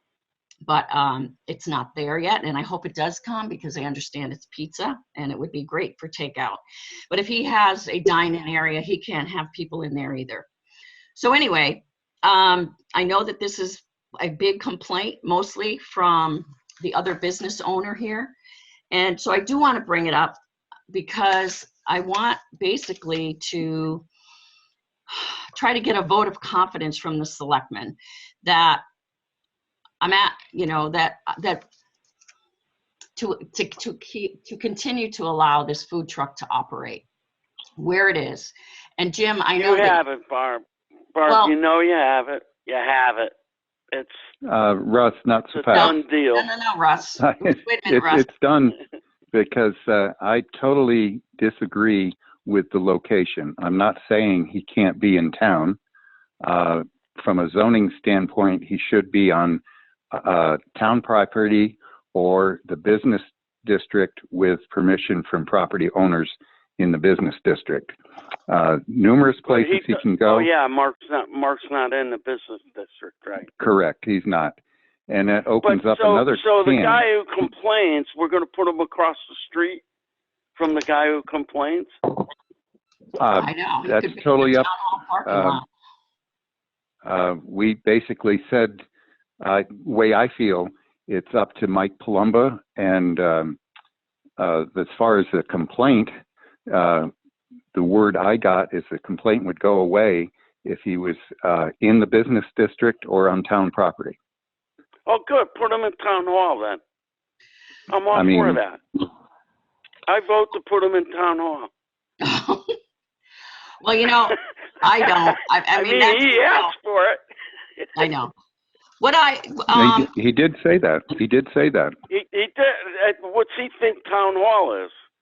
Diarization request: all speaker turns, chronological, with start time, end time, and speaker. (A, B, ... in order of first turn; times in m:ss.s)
0:00.6-0:10.5 A
0:11.2-0:18.3 A
0:18.9-0:20.4 A
0:20.9-0:24.1 A
0:25.1-0:28.8 A
0:30.0-0:31.6 A
0:33.2-0:37.0 A
0:37.8-0:40.0 A
0:39.6-0:40.6 B
0:41.2-0:43.3 B
0:41.3-0:41.6 A
0:44.4-0:46.0 C
0:45.5-0:46.5 B
0:45.7-0:48.3 A
0:47.2-0:48.8 C
0:49.3-0:55.8 C
0:56.4-0:59.6 C
1:00.1-1:07.9 C
1:08.5-1:10.5 C
1:09.5-1:13.5 B
1:13.6-1:14.6 C
1:15.1-1:17.0 C
1:15.6-1:19.8 B
1:20.6-1:21.9 B
1:23.2-1:24.7 C
1:23.3-1:25.7 A
1:25.2-1:25.6 C
1:27.0-1:28.8 C
1:29.4-1:33.6 C
1:34.4-1:36.1 C
1:36.7-1:37.1 C
1:37.7-1:44.2 C
1:45.1-1:46.8 B
1:47.9-1:48.8 B
1:48.1-1:48.6 C
1:50.1-1:51.7 B
1:52.2-1:52.8 A
1:53.8-1:56.7 A
1:55.0-1:57.2 B
1:58.0-1:58.3 A
1:59.0-2:00.1 A
1:59.7-2:01.9 C
2:02.1-2:04.9 B